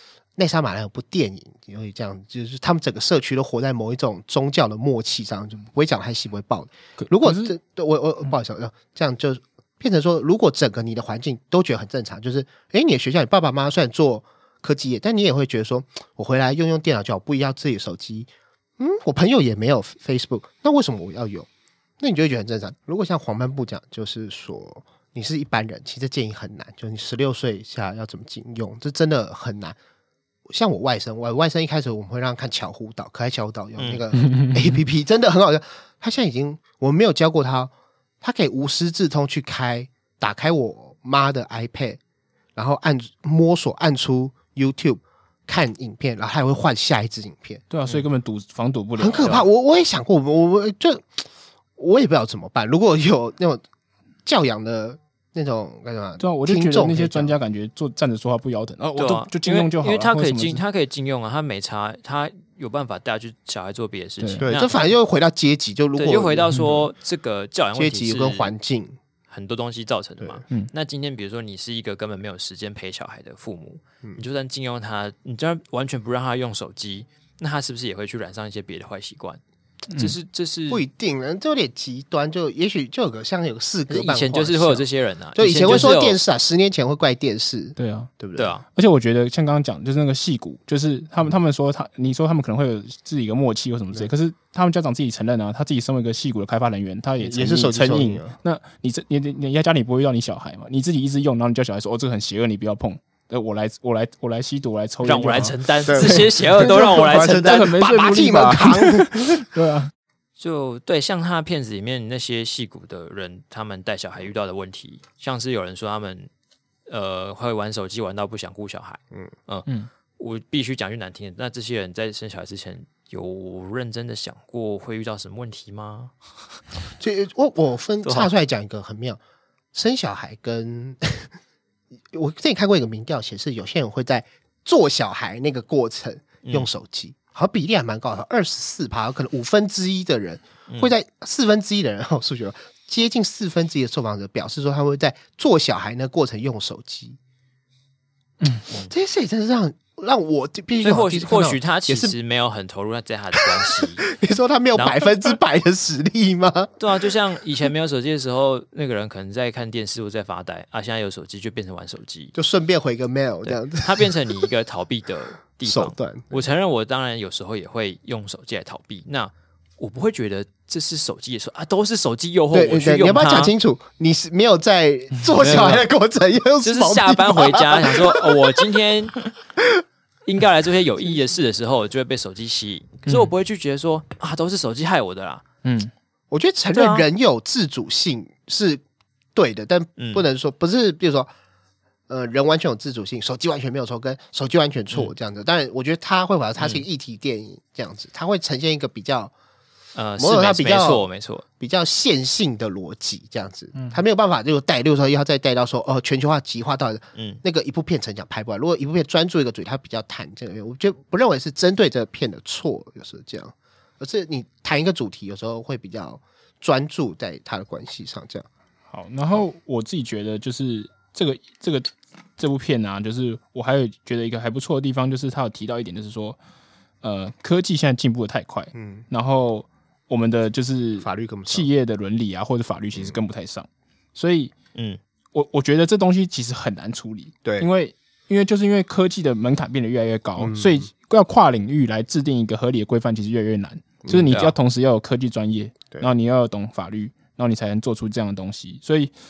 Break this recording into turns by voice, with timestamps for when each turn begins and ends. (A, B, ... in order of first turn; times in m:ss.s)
0:00.4-0:21.5 A
0:07.0-0:07.5 B
0:22.0-0:29.8 A
0:30.5-0:42.0 A
0:34.2-0:34.8 B
0:42.6-0:47.6 A
0:47.7-0:49.4 B
0:49.0-0:51.3 A
0:49.2-0:49.4 C
0:51.8-0:53.6 A
0:54.3-0:57.4 A
0:56.2-1:00.6 B
0:59.0-1:04.7 C
1:04.2-1:04.4 B
1:04.4-1:06.8 A
1:06.0-1:08.5 C
1:07.8-1:09.0 A
1:09.3-1:19.4 C
1:19.9-1:20.8 C
1:20.7-1:28.5 A
1:23.9-1:26.2 C
1:27.8-1:28.1 B
1:28.4-1:28.6 C
1:28.7-1:49.9 B
1:37.2-1:38.4 A
1:45.0-1:47.7 C
1:45.9-1:49.4 A
1:50.4-1:56.3 C
1:56.9-2:06.1 C
2:07.0-2:09.2 A
2:08.0-2:08.3 C
2:09.7-2:11.3 A
2:12.1-2:27.2 A
2:28.9-2:32.1 A
2:30.8-2:34.1 C
2:33.4-2:36.7 A
2:34.8-2:35.0 C
2:36.8-2:42.3 C
2:42.4-2:44.5 A
2:43.4-2:53.5 C
2:45.6-2:46.4 A
2:52.5-2:58.6 A
2:55.4-2:55.8 B
2:55.4-2:55.8 C
2:56.6-2:59.2 C
3:00.3-3:05.4 C
3:05.6-3:05.9 B
3:06.3-3:08.8 A
3:06.7-3:07.1 C
3:09.4-3:11.3 A
3:10.0-3:10.2 C
3:12.1-3:19.3 A
3:16.6-3:16.8 C
3:19.9-3:21.4 C
3:20.2-3:21.1 A
3:21.6-3:38.5 A
3:27.1-3:27.4 C
3:38.9-3:46.4 B
3:47.0-3:54.5 B
3:48.7-3:49.0 A
3:51.0-3:51.7 A
3:54.8-3:55.0 C
3:55.3-4:09.1 B
3:57.4-3:57.7 A
4:00.4-4:00.9 A
4:04.0-4:04.3 A
4:04.3-4:04.5 C